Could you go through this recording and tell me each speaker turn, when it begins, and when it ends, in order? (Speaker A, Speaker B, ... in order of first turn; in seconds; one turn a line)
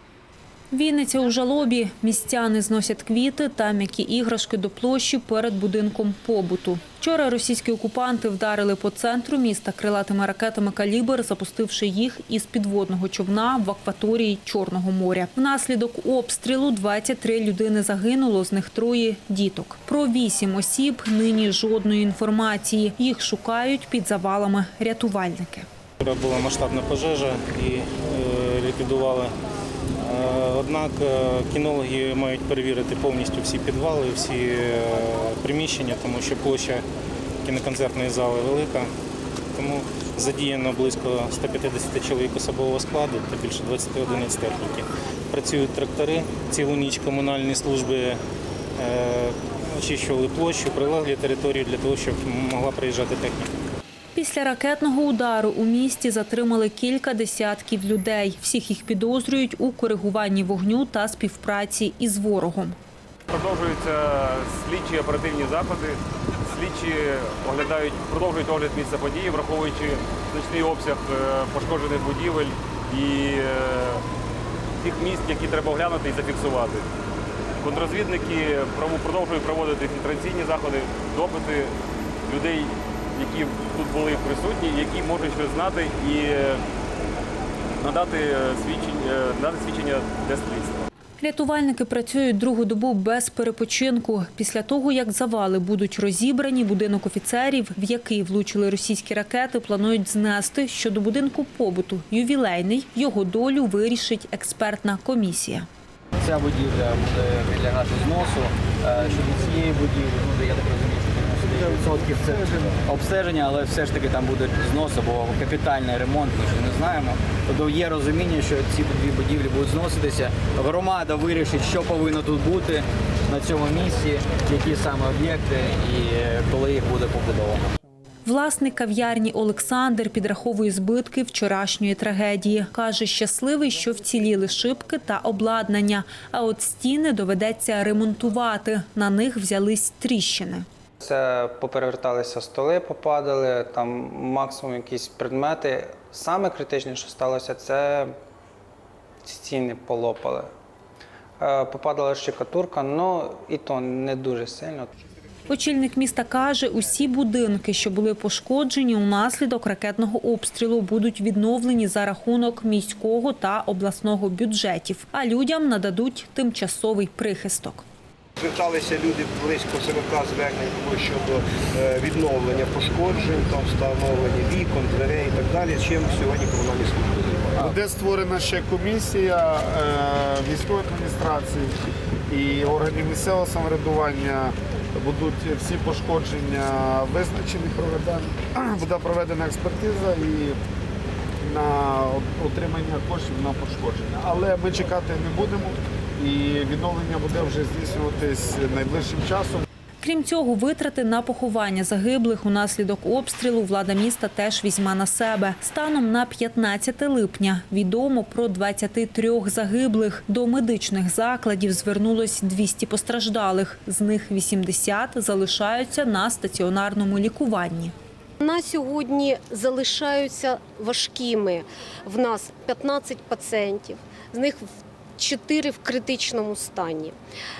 Speaker A: 0.7-25.6
Speaker B: 26.0-29.3
Speaker B: 30.0-36.9
Speaker B: 37.4-38.9
Speaker B: 39.5-48.2
Speaker B: 48.8-53.5
Speaker A: 54.1-62.8
Speaker C: 63.3-66.0
Speaker C: 66.5-74.0
Speaker C: 74.8-76.9
Speaker C: 77.6-81.7
Speaker C: 82.3-86.6
Speaker C: 87.8-90.9
Speaker A: 91.2-105.7
Speaker D: 106.2-127.7
Speaker A: 128.2-140.7
Speaker E: 141.0-148.1
Speaker E: 149.2-150.5
Speaker E: 151.4-154.9
Speaker A: 155.5-167.8
Speaker F: 168.4-177.6
Speaker G: 177.6-181.7
Speaker G: 182.3-190.6
Speaker G: 191.4-199.6
Speaker A: 200.0-217.9
Speaker H: 218.4-224.6
Speaker H: 225.2-227.1